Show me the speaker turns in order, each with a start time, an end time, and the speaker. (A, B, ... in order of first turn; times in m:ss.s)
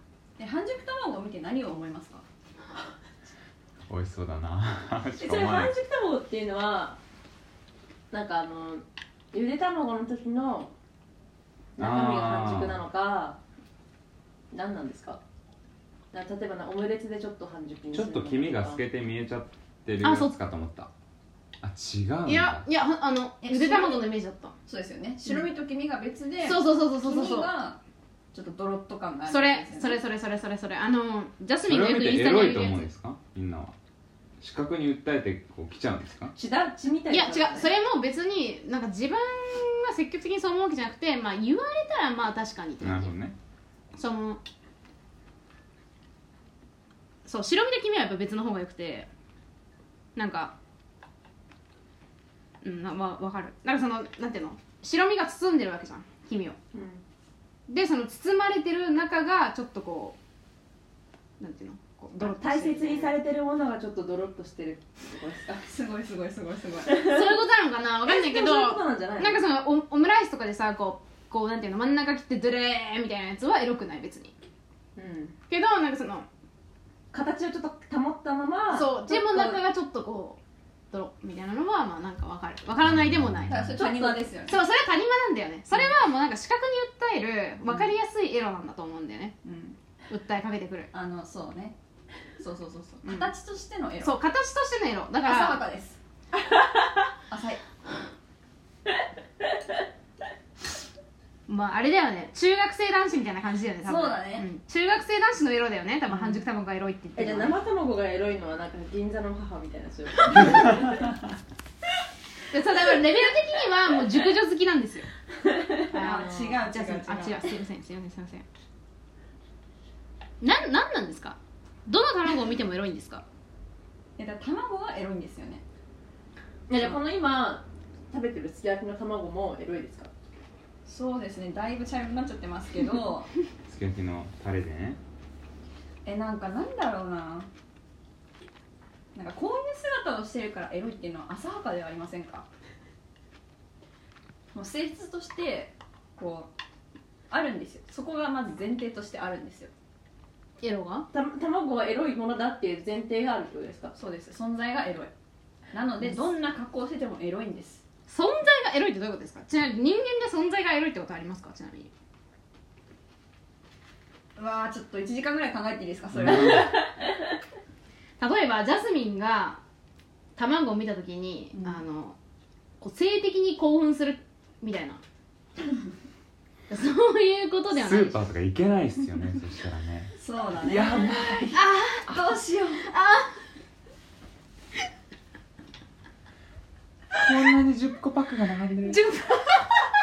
0:00.4-0:02.2 A
0:03.9-0:05.8 B
0:05.2-0:07.0 C
0:08.1-0:10.7 C
0:11.8-0:13.4 C
0:11.8-0:12.8 B
0:14.5-0:15.2 C
0:16.1-0:18.8 C
0:17.9-0:20.9 B
0:20.0-0:20.4 D
0:21.6-0:22.7 B
0:22.2-0:24.5 D
0:23.4-0:24.1 A
0:24.6-0:27.8 A
0:26.4-0:27.5 D
0:28.3-0:30.0 A
0:29.3-0:32.9 D
0:31.6-0:33.7 B
0:34.4-0:36.4 B
0:36.3-0:37.8 C
0:37.1-0:43.1 D
0:42.8-0:43.3 B
0:43.9-0:44.4 D
0:47.2-0:49.1 D
0:50.2-0:50.5 D
0:52.6-0:56.6 D
0:56.7-0:57.0 C
0:57.7-1:00.2 D
1:01.4-1:03.2 D
1:02.2-1:05.6 C
1:05.6-1:07.1 A
1:07.0-1:14.3 D
1:08.1-1:09.4 C
1:15.0-1:15.3 C
1:15.5-1:16.3 D
1:17.1-1:19.6 C
1:18.7-1:20.4 D
1:20.9-1:23.6 D
1:22.9-1:23.5 B
1:23.5-1:24.6 A
1:23.7-1:24.2 C
1:24.5-1:29.4 D
1:29.4-1:29.8 A
1:30.1-1:30.9 D
1:30.9-1:31.8 A
1:32.4-1:34.2 A
1:33.0-1:33.3 D
1:34.0-1:35.6 D
1:35.2-1:36.0 A
1:37.3-1:37.6 A
1:41.5-1:47.6 D
1:43.8-1:44.5 A
1:46.1-1:46.4 A
1:47.2-1:51.0 C
1:52.5-1:55.1 D
1:55.9-1:57.6 A
1:55.9-1:58.4 D
2:00.4-2:03.2 D
2:04.2-2:05.6 A
2:06.7-2:10.1 C
2:10.8-2:13.3 A
2:13.7-2:15.0 B
2:16.0-2:17.5 A
2:19.1-2:22.5 A
2:24.5-2:26.5 A
2:27.3-2:29.7 A
2:30.6-2:31.1 D
2:31.1-2:33.9 C
2:34.0-2:35.1 A
2:35.7-2:37.8 A
2:38.1-2:41.9 D
2:44.4-2:46.9 A
2:46.1-2:46.7 B
2:48.2-2:49.6 D
2:50.4-2:52.2 D
2:51.5-2:51.8 A
2:52.8-2:55.0 D
2:56.7-2:58.2 D
2:57.7-3:01.6 B
3:00.2-3:02.9 A
3:01.5-3:02.2 D
3:02.8-3:03.3 D
3:07.2-3:09.0 B
3:08.9-3:09.7 D